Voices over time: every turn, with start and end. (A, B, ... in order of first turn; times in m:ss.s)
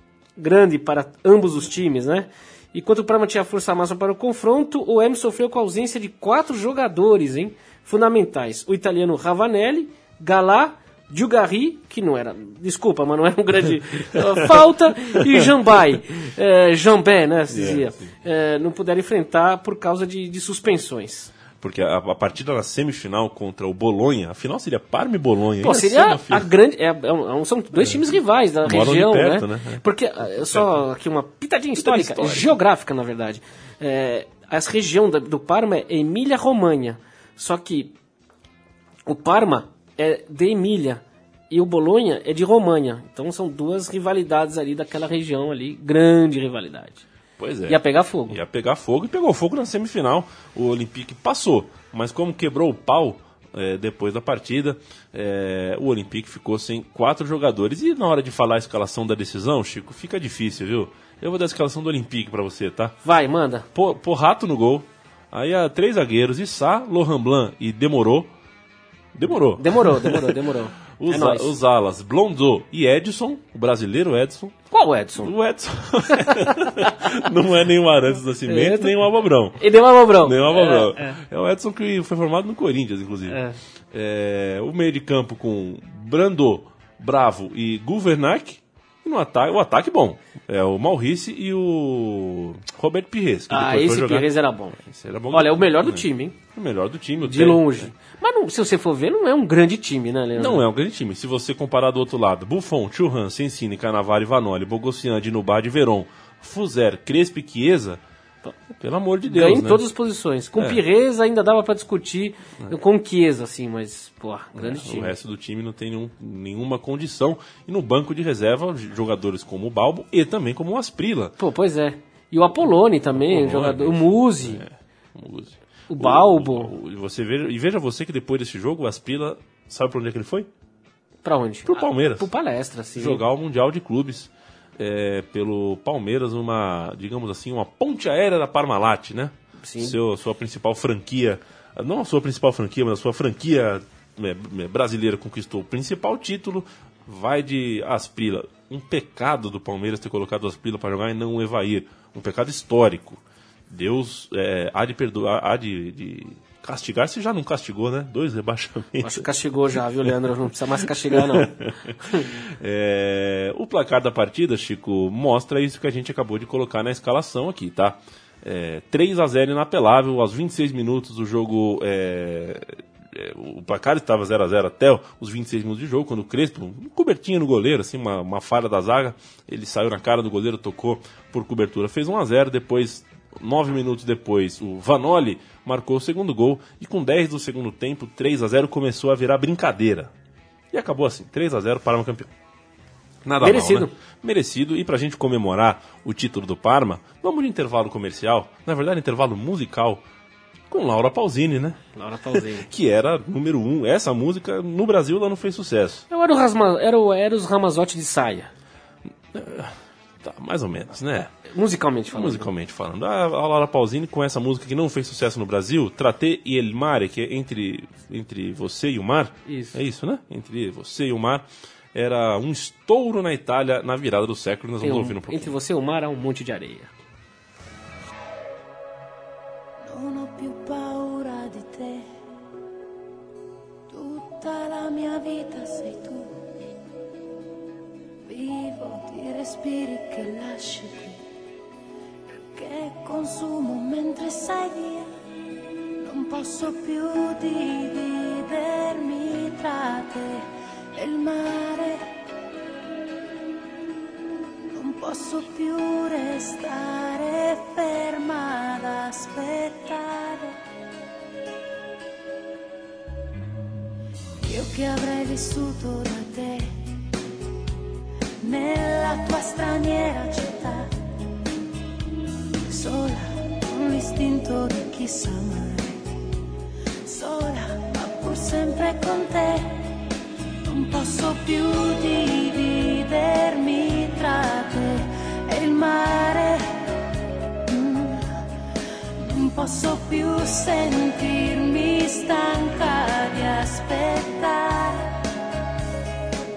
0:00.4-0:21.3 A
0:17.5-0:18.1 B
0:21.6-0:26.5 B
0:25.6-0:38.0 A
0:27.8-0:30.8 B
0:31.8-0:32.6 B
0:39.1-0:47.0 A
0:47.4-1:03.0 B
0:47.7-0:48.4 A
1:03.0-1:03.7 A
1:03.7-1:08.3 B
1:09.1-1:10.4 B
1:09.6-1:11.5 A
1:11.0-1:14.6 B
1:14.7-1:15.3 A
1:15.2-1:23.4 B
1:16.1-1:16.8 A
1:18.5-1:21.2 A
1:23.3-1:23.6 A
1:23.9-1:37.9 B
1:33.5-1:34.8 A
1:35.3-1:36.4 A
1:37.2-1:40.6 A
1:40.4-1:48.0 B
1:48.7-1:49.8 B
1:49.2-1:55.2 A
1:54.6-2:01.3 B
2:01.4-2:04.6 A
2:03.2-2:10.5 B
2:05.9-2:06.7 A
2:11.2-2:13.2 A
2:11.7-2:12.3 B
2:13.0-2:39.3 B
2:19.6-2:20.0 A
2:39.0-2:42.3 A
2:40.0-2:40.3 B
2:41.1-3:10.1 B
3:10.7-3:12.3 B
3:13.2-3:20.0 B
3:13.4-3:13.9 A
3:20.7-3:21.8 B
3:22.0-3:22.7 A
3:22.3-3:26.0 B
3:26.1-3:28.5 A
3:29.3-3:31.3 B
3:31.5-3:32.5 A
3:32.1-3:45.6 B
3:39.5-3:39.8 A
3:44.8-3:46.9 A
3:49.8-3:52.1 C
3:53.9-3:56.4 C
3:58.3-4:01.2 C
4:02.5-4:05.1 C
4:06.0-4:12.1 C
4:14.7-4:20.6 C
4:24.4-4:26.7 C
4:28.4-4:30.9 C
4:32.7-4:36.0 C
4:37.0-4:39.9 C
4:40.6-4:46.8 C
4:47.7-4:48.3 C
4:49.2-4:55.2 C